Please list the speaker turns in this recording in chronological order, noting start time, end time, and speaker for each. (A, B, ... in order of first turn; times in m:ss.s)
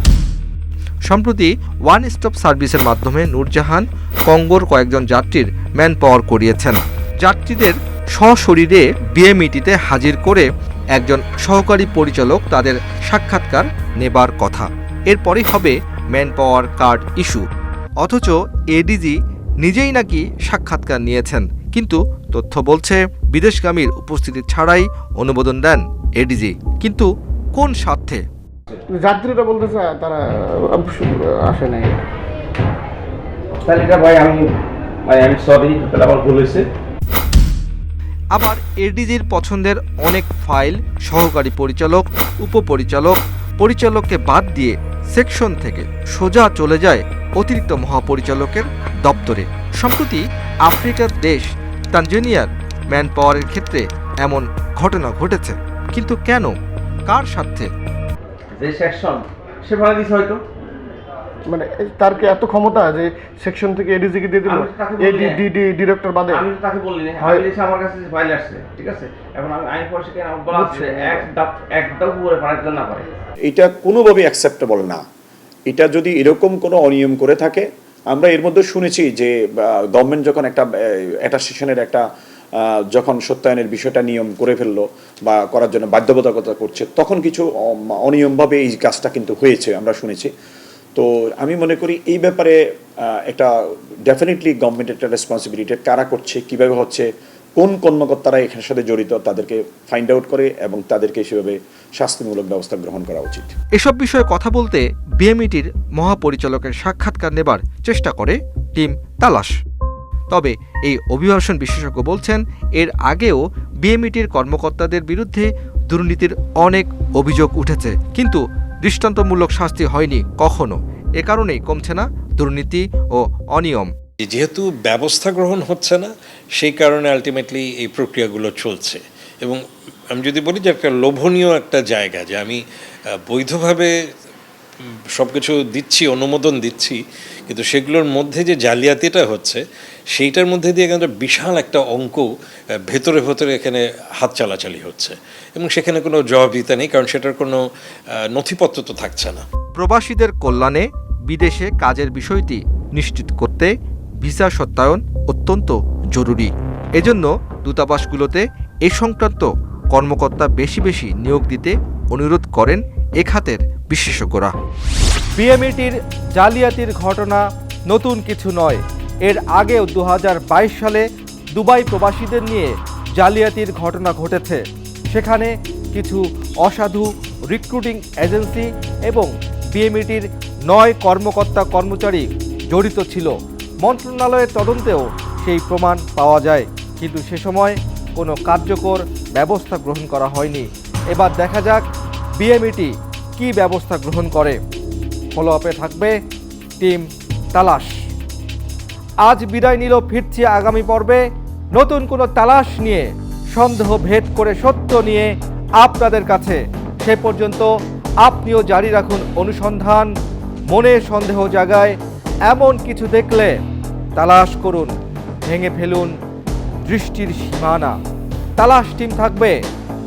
0:01.1-0:17.4 A
0:18.0-0:28.2 A
0:38.3-0:56.5 A
0:57.1-0:57.7 A
0:58.6-1:00.4 B
1:01.5-1:04.4 C
1:04.5-1:05.4 B
1:05.0-1:06.4 C
1:06.3-1:13.0 B
1:07.2-1:07.5 C
1:10.7-1:11.2 C
1:13.4-1:15.0 D
1:15.7-1:19.3 D
1:19.9-1:20.7 D
1:21.2-1:22.0 D
1:22.9-1:27.4 D
1:28.0-1:30.3 D
1:31.0-1:32.6 D
1:34.1-1:37.0 D
1:37.6-1:43.5 D
1:43.8-1:49.5 A
1:50.3-2:03.9 A
2:04.2-2:12.6 E
2:13.2-2:13.9 E
2:15.1-2:19.6 E
2:20.1-2:22.3 E
2:22.9-2:27.6 E
2:28.3-2:29.4 E
2:29.8-2:33.7 A
2:34.2-2:44.5 A
2:45.4-3:11.8 A
3:12.4-3:14.6 A
3:15.3-3:16.2 A
3:16.8-3:17.9 A
3:19.2-3:21.2 A
3:21.7-3:27.7 A
3:28.2-3:30.1 A
3:30.7-3:32.0 A
3:32.5-3:33.6 A
3:34.2-3:34.9 A
3:35.5-3:36.1 A
3:36.8-3:37.9 A
3:38.6-3:39.6 A